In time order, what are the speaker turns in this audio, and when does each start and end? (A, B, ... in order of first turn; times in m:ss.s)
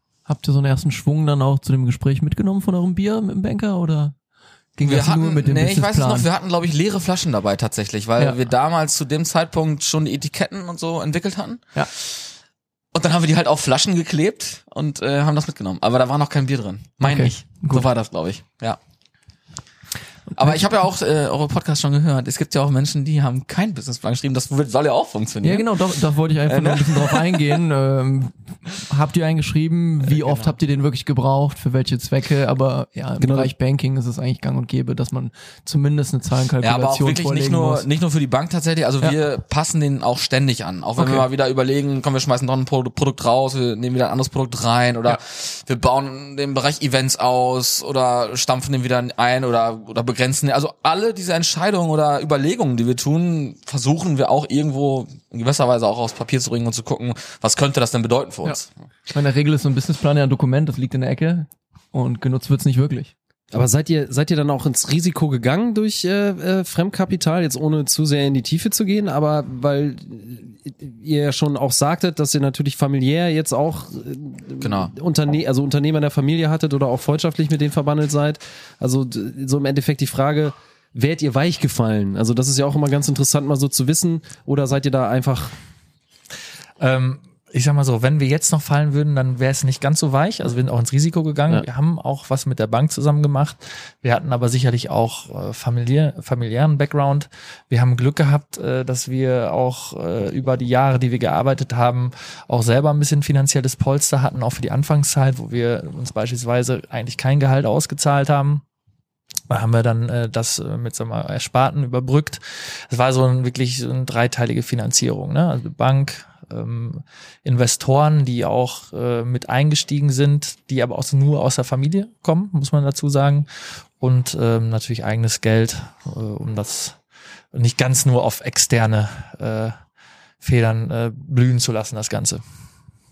0:00.3-0:04.1 A
0:04.8-0:06.3 A
0:04.8-0:12.2 B
0:12.9-0:18.8 B
0:17.0-0:17.9 A
0:20.3-0:20.6 A
0:20.4-0:27.6 B
0:25.4-0:37.8 A
0:30.0-0:30.6 B
0:33.2-0:33.5 C
0:36.6-0:58.7 B
0:41.0-0:41.2 A
0:59.1-1:03.1 A
1:03.5-1:25.5 C
1:14.6-1:14.9 B
1:26.8-1:48.6 D
1:49.5-2:07.0 D
2:07.5-2:09.8 D
2:10.4-2:12.4 D